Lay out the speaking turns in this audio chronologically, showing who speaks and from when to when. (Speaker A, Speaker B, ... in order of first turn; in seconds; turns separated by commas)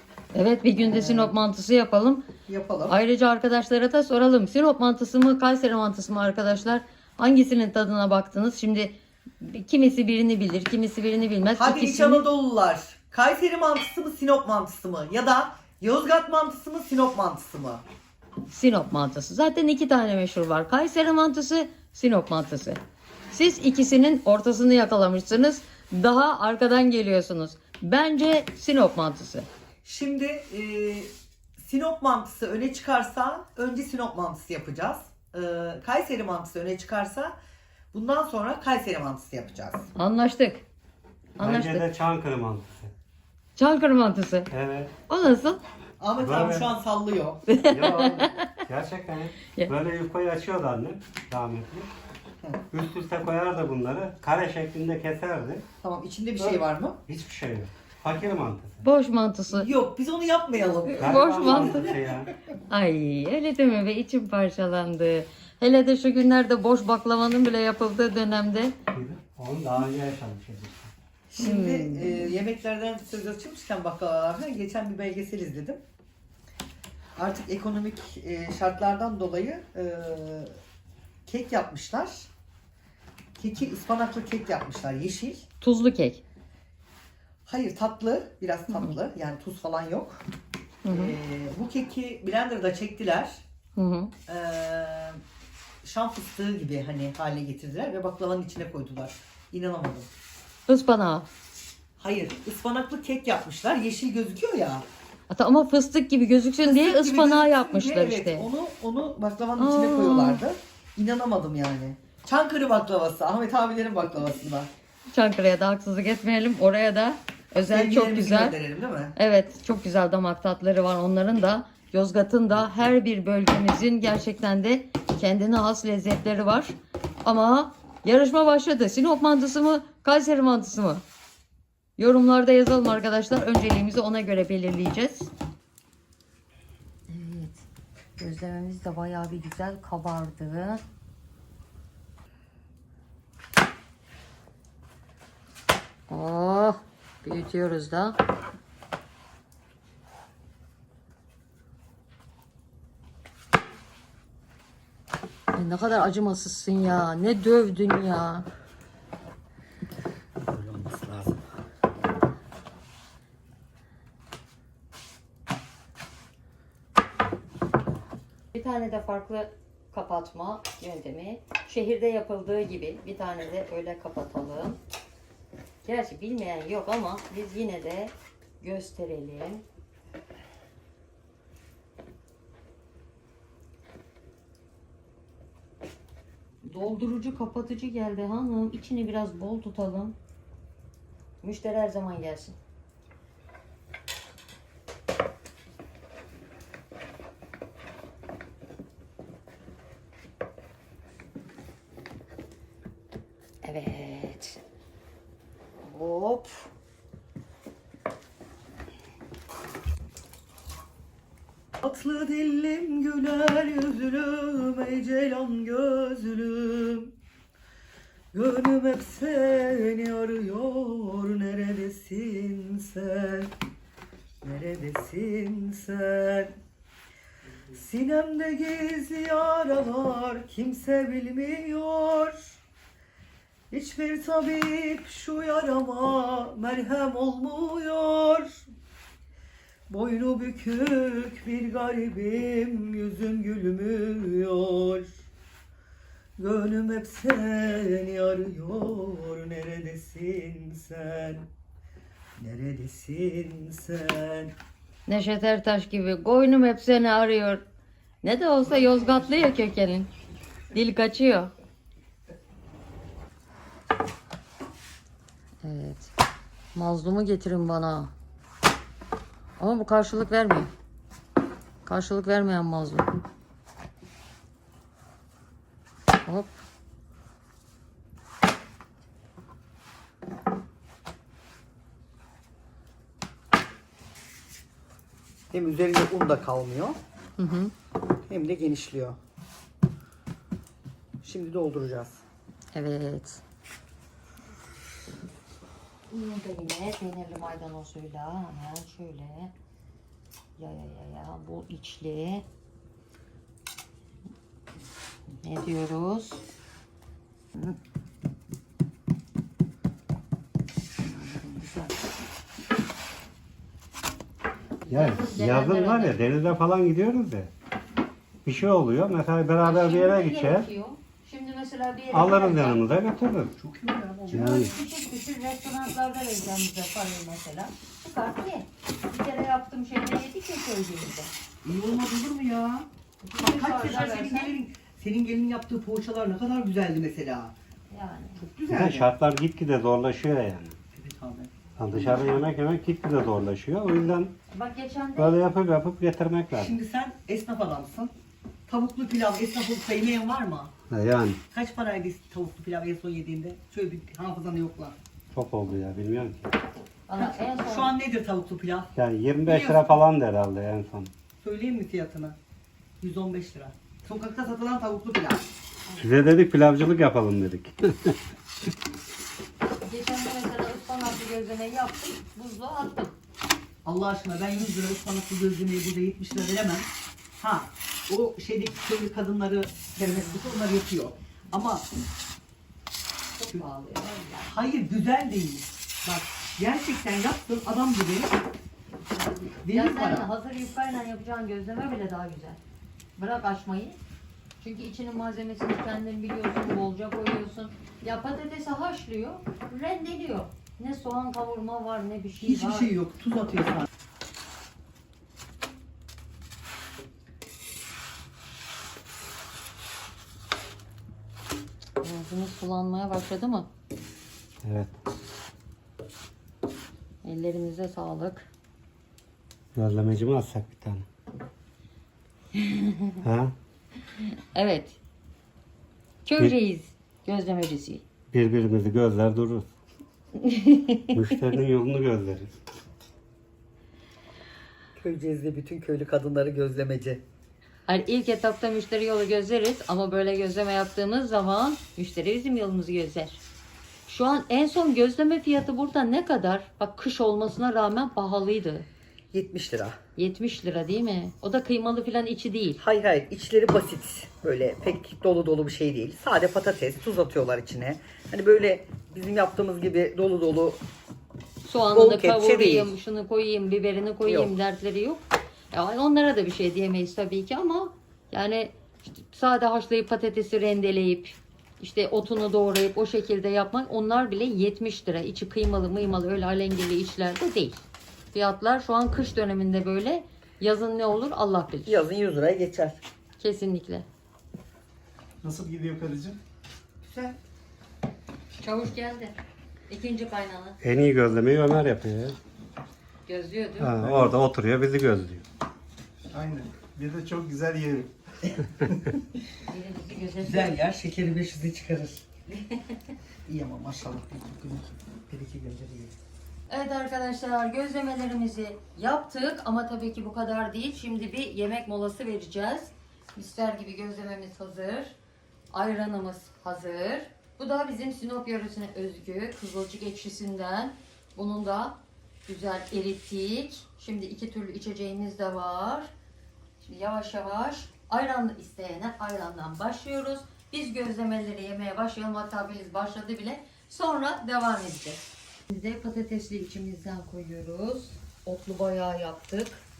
Speaker A: 0.3-2.2, Speaker B: 0.8-1.3, Speaker B: 2.5-3.0, Speaker A: 2.9-12.2, Speaker B: 11.5-17.8, Speaker A: 18.5-22.8, Speaker A: 23.3-29.5, Speaker B: 29.8-37.4, Speaker B: 37.9-39.9, Speaker A: 39.9-40.6, Speaker A: 41.4-41.8, Speaker C: 41.4-42.9, Speaker A: 43.6-44.5, Speaker C: 44.5-44.9, Speaker A: 45.1-45.6, Speaker B: 46.0-47.4, Speaker C: 46.2-46.7, Speaker A: 47.5-48.6, Speaker C: 47.7-51.9, Speaker C: 52.7-55.6, Speaker B: 55.8-57.0, Speaker C: 56.4-58.8, Speaker A: 58.8-59.7, Speaker B: 59.5-62.2, Speaker A: 61.0-61.8, Speaker C: 61.0-62.3, Speaker A: 62.7-68.7, Speaker C: 68.9-70.9, Speaker B: 71.3-75.8, Speaker A: 71.4-72.3, Speaker B: 77.2-80.5, Speaker B: 81.2-82.3, Speaker B: 83.4-85.5, Speaker A: 85.6-86.2, Speaker B: 87.5-90.2, Speaker A: 88.7-89.0, Speaker A: 90.8-91.2, Speaker B: 90.9-93.4, Speaker A: 93.8-94.1, Speaker B: 94.3-95.2, Speaker B: 95.8-100.1, Speaker A: 100.7-101.3, Speaker B: 102.0-104.8, Speaker A: 105.3-108.5, Speaker B: 106.6-114.7, Speaker A: 109.6-110.4, Speaker A: 115.1-118.6, Speaker B: 117.7-119.1, Speaker A: 119.2-131.0, Speaker A: 132.0-135.3, Speaker A: 137.1-137.6, Speaker A: 138.2-140.8, Speaker A: 146.1-148.2, Speaker A: 155.5-158.5, Speaker B: 160.4-161.4, Speaker A: 168.5-174.8, Speaker A: 175.8-179.6, Speaker A: 186.6-190.2, Speaker A: 191.4-192.6, Speaker A: 203.6-204.6, Speaker A: 205.8-206.7, Speaker B: 211.8-217.1, Speaker B: 218.3-223.5, Speaker B: 224.4-226.6, Speaker B: 227.7-232.6, Speaker B: 233.7-238.7, Speaker B: 239.9-245.1, Speaker B: 246.4-251.5, Speaker B: 252.4-254.5, Speaker A: 255.1-257.6, Speaker A: 258.2-260.1, Speaker A: 260.7-261.5, Speaker A: 265.6-266.1, Speaker A: 266.7-268.1, Speaker A: 269.6-270.7, Speaker A: 271.8-273.1, Speaker A: 276.2-276.5, Speaker B: 285.5-287.0, Speaker A: 287.4-287.7, Speaker B: 288.3-289.2, Speaker B: 291.2-292.2, Speaker A: 292.7-293.4, Speaker A: 296.1-299.5, Speaker A: 300.6-302.4, Speaker A: 305.4-306.4, Speaker A: 311.0-312.0, Speaker A: 314.8-316.2, Speaker C: 314.9-317.5, Speaker C: 318.4-320.6, Speaker A: 319.6-322.8, Speaker C: 322.1-323.5, Speaker B: 323.6-324.8, Speaker A: 324.3-331.3, Speaker C: 324.3-324.7, Speaker B: 331.6-332.9, Speaker A: 333.2-334.5, Speaker B: 333.4-337.5, Speaker A: 337.9-338.4, Speaker B: 338.4-339.1, Speaker C: 338.7-340.8, Speaker B: 340.9-342.4, Speaker C: 341.8-344.3, Speaker A: 344.5-345.4, Speaker C: 345.2-346.7, Speaker B: 346.5-348.1, Speaker B: 348.7-350.7, Speaker C: 350.9-351.4, Speaker B: 351.5-355.0, Speaker C: 355.3-356.4, Speaker A: 357.1-357.9, Speaker B: 357.1-358.9, Speaker C: 358.9-361.1, Speaker B: 359.4-359.9, Speaker B: 361.4-362.4, Speaker B: 363.0-365.4, Speaker C: 366.0-368.2, Speaker A: 369.8-373.1, Speaker B: 373.8-381.9, Speaker A: 383.4-384.6, Speaker B: 384.4-388.4, Speaker A: 389.0-392.6, Speaker B: 389.6-390.3, Speaker A: 393.2-394.0, Speaker A: 394.6-402.9, Speaker B: 402.4-403.9, Speaker A: 412.0-413.7, Speaker C: 414.6-414.9, Speaker A: 417.2-418.5, Speaker C: 419.7-421.1, Speaker A: 422.5-423.2, Speaker C: 423.2-423.5, Speaker A: 424.2-425.0, Speaker A: 426.2-428.0, Speaker C: 428.3-429.7, Speaker A: 430.4-431.1, Speaker C: 431.1-432.5, Speaker B: 434.9-437.2, Speaker A: 437.9-443.4, Speaker A: 444.1-448.9, Speaker B: 449.3-450.0, Speaker A: 450.1-452.8, Speaker B: 452.8-460.8, Speaker A: 461.6-482.0, Speaker B: 461.9-462.9, Speaker B: 464.2-464.5, Speaker B: 481.9-483.0, Speaker A: 483.4-484.1, Speaker D: 485.4-486.4, Speaker B: 487.0-487.4, Speaker A: 488.6-489.3, Speaker A: 489.9-490.8, Speaker C: 490.8-492.4, Speaker A: 493.2-493.9, Speaker C: 493.8-495.4, Speaker B: 496.3-496.7, Speaker D: 496.9-498.1, Speaker A: 499.6-500.8, Speaker B: 500.4-502.3, Speaker B: 503.4-506.1, Speaker A: 506.7-515.1, Speaker A: 515.7-526.1, Speaker A: 526.8-539.8